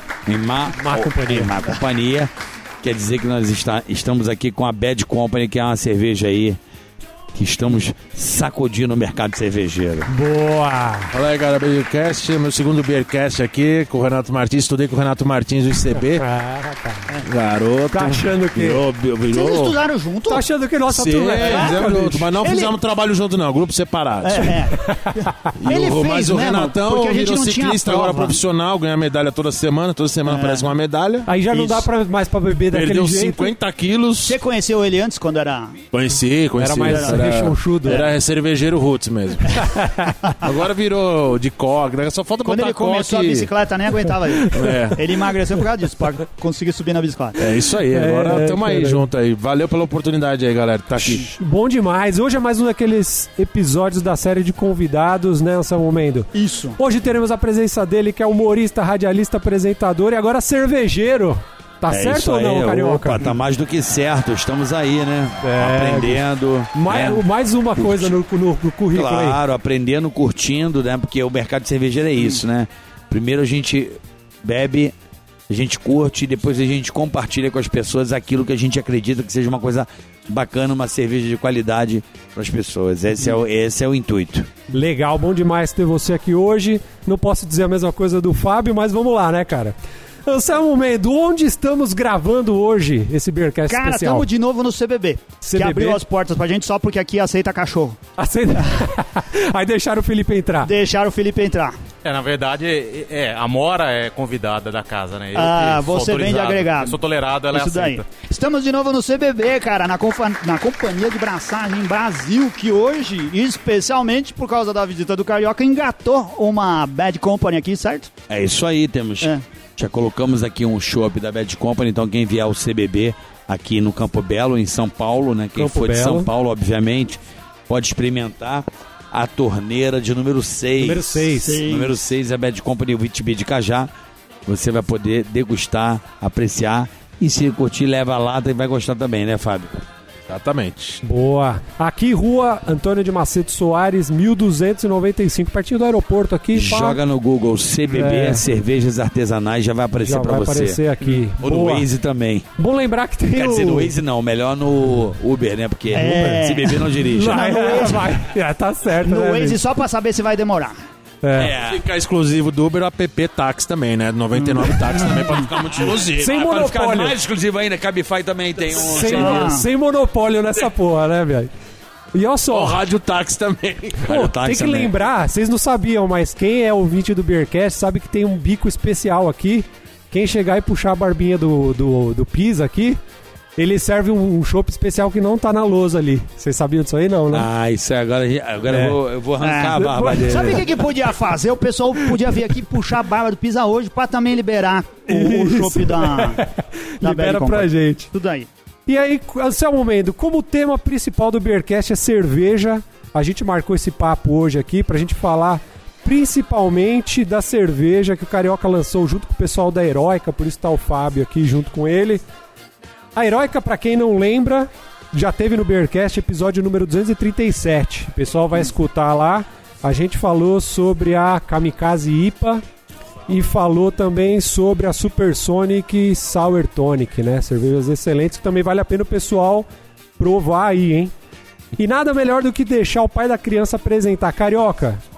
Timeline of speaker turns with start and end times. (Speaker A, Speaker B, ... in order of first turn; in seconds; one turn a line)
Speaker A: 0.3-2.3
Speaker B: 0.8-1.6
Speaker A: 2.8-6.6
Speaker A: 7.3-10.1
Speaker B: 10.1-11.1
Speaker C: 11.1-16.2
Speaker B: 15.9-17.1
Speaker C: 17.2-18.3
Speaker B: 17.9-18.8
Speaker A: 18.6-19.8
Speaker D: 19.3-20.4
Speaker B: 20.3-22.3
Speaker C: 20.9-24.6
Speaker D: 21.4-21.7
Speaker D: 22.4-22.7
Speaker D: 24.2-28.4
Speaker C: 25.6-31.7
Speaker D: 30.3-30.7
Speaker B: 31.3-33.5
Speaker C: 32.7-34.4
Speaker D: 34.2-35.8
Speaker C: 35.9-39.6
Speaker B: 36.6-38.1
Speaker D: 36.9-37.2
Speaker B: 39.7-40.1
Speaker C: 40.4-43.5
Speaker D: 42.4-47.5
Speaker C: 44.5-45.1
Speaker C: 47.4-51.2
Speaker B: 47.9-49.0
Speaker B: 51.0-63.2
Speaker D: 56.3-56.8
Speaker A: 61.9-67.2
Speaker B: 65.4-69.4
Speaker A: 67.8-68.1
Speaker A: 68.9-74.9
Speaker A: 75.5-84.5
Speaker B: 84.7-89.7
Speaker B: 90.2-94.3
Speaker D: 93.7-98.0
Speaker B: 95.4-96.0
Speaker B: 98.2-100.7
Speaker D: 100.6-101.8
Speaker E: 102.0-108.1
Speaker D: 105.3-107.0
Speaker D: 107.5-118.1
Speaker A: 118.3-133.9
Speaker B: 125.5-126.3
Speaker B: 130.8-131.6
Speaker D: 131.4-131.9
Speaker A: 134.5-139.8
Speaker C: 140.3-141.0
Speaker B: 141.0-147.0
Speaker A: 146.5-150.8
Speaker B: 147.9-148.4
Speaker B: 150.0-151.8
Speaker A: 151.4-152.5
Speaker B: 152.6-153.9
Speaker A: 153.3-157.7
Speaker B: 155.9-156.4
Speaker D: 155.9-158.2
Speaker B: 157.0-159.6
Speaker D: 159.0-160.7
Speaker B: 161.2-161.5
Speaker A: 161.3-161.8
Speaker C: 161.5-166.4
Speaker D: 164.4-165.4
Speaker B: 166.2-167.1
Speaker A: 166.2-169.6
Speaker B: 168.7-171.5
Speaker D: 169.0-169.6
Speaker B: 172.1-172.8
Speaker C: 172.5-174.1
Speaker B: 174.0-183.0
Speaker A: 174.1-174.9
Speaker B: 183.6-187.5
Speaker A: 187.3-190.8
Speaker B: 188.7-189.0
Speaker D: 189.4-196.4
Speaker B: 189.9-190.6
Speaker B: 195.1-198.1
Speaker D: 197.0-198.5
Speaker B: 198.9-212.2
Speaker B: 213.1-222.6
Speaker B: 223.3-229.7
Speaker B: 230.2-231.1
Speaker B: 231.7-235.0